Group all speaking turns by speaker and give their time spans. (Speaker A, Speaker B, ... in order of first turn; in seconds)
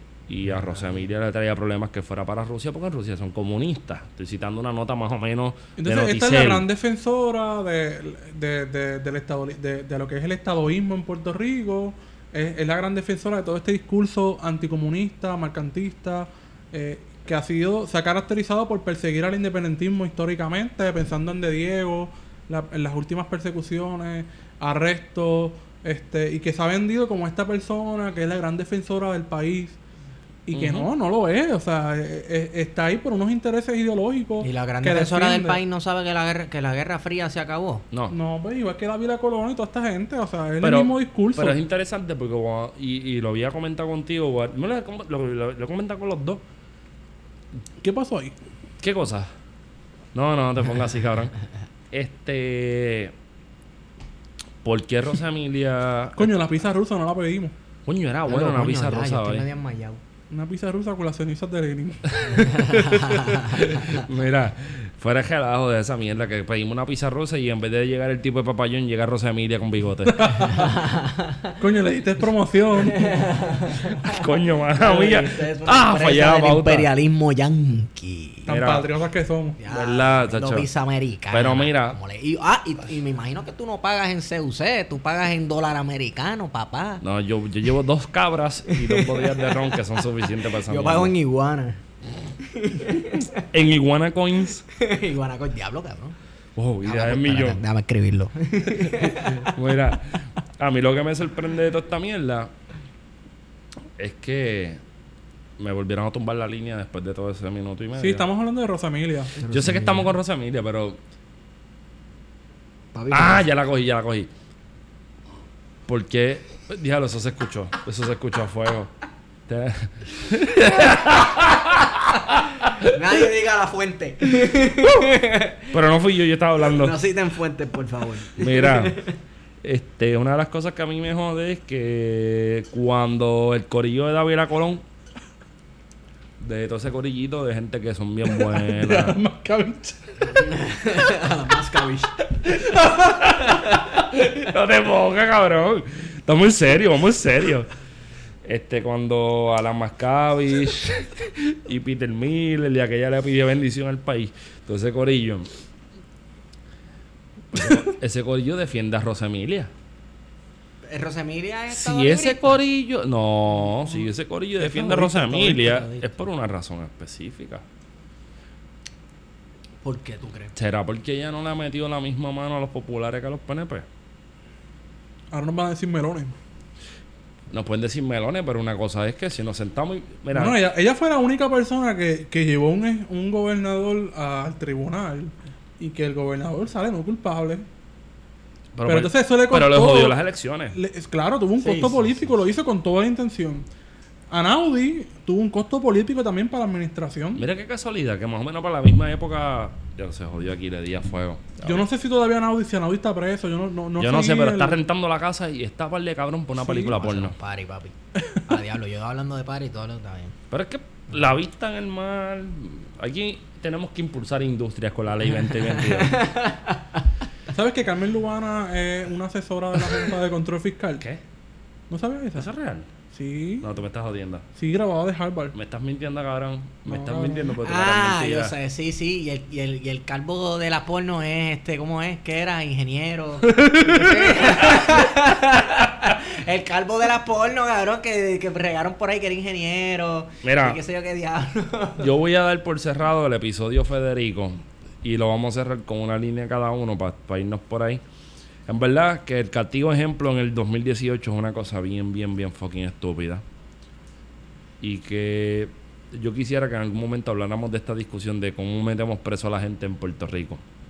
Speaker A: 0.3-6.7, 30.5-30.9, 40.6-46.4, 48.8-49.3, 50.1-51.3, 51.9-53.1, 54.6-56.3, 57.9-59.5, 62.1-70.5, 74.1-76.9, 78.5-78.9, 79.7-80.7, 81.3-82.0, 87.0-91.1, 93.4-94.6, 96.5-97.6, 99.4-102.5, 104.0-104.8, 105.6-108.2, 109.5-111.0, 113.1-114.3, 115.9-118.9, 119.5-122.9, 125.7-126.9, 128.4-129.0, 129.6-134.8, 136.4-139.2, 142.5-147.7, 148.4-155.5, 157.5-159.7, 161.7-167.6, 170.5-173.8, 177.5-180.6, 188.7-190.8, 197.3-201.8, 204.0-207.3, 210.5-216.2, 222.3-222.9, 223.6-224.4, 225.5-228.5, 234.5-234.9, 240.4-240.8, 242.0-248.0, 248.7-253.4, 254.8-260.6
Speaker B: 5.8-29.8, 30.5-35.6, 38.1-41.6, 47.8-48.3, 56.1-57.5, 60.3-62.6, 70.1-70.7, 71.6-73.2, 78.5-79.6, 108.0-109.3, 138.3-140.5, 142.7-143.2, 175.3-176.3, 180.3-187.6, 188.8-190.2, 190.7-193.7, 194.3-197.4, 201.6-204.8, 217.5-221.0, 221.9-222.5, 223.1-223.7, 224.6-225.5, 226.8-227.6, 233.6-234.1
Speaker C: 34.4-37.8, 58.3-60.0, 62.4-64.0, 70.6-71.5, 72.9-78.5, 79.6-87.0, 88.7-90.0, 90.6-91.8, 92.4-93.4, 94.7-96.2, 96.8-99.5, 109.4-110.1, 112.9-113.5, 122.8-125.7, 126.6-129.1, 140.3-142.2, 160.8-162.6, 164.6-166.1, 169.8-170.5, 191.6-192.3, 206.6-210.3, 215.5-217.0, 227.6-242.1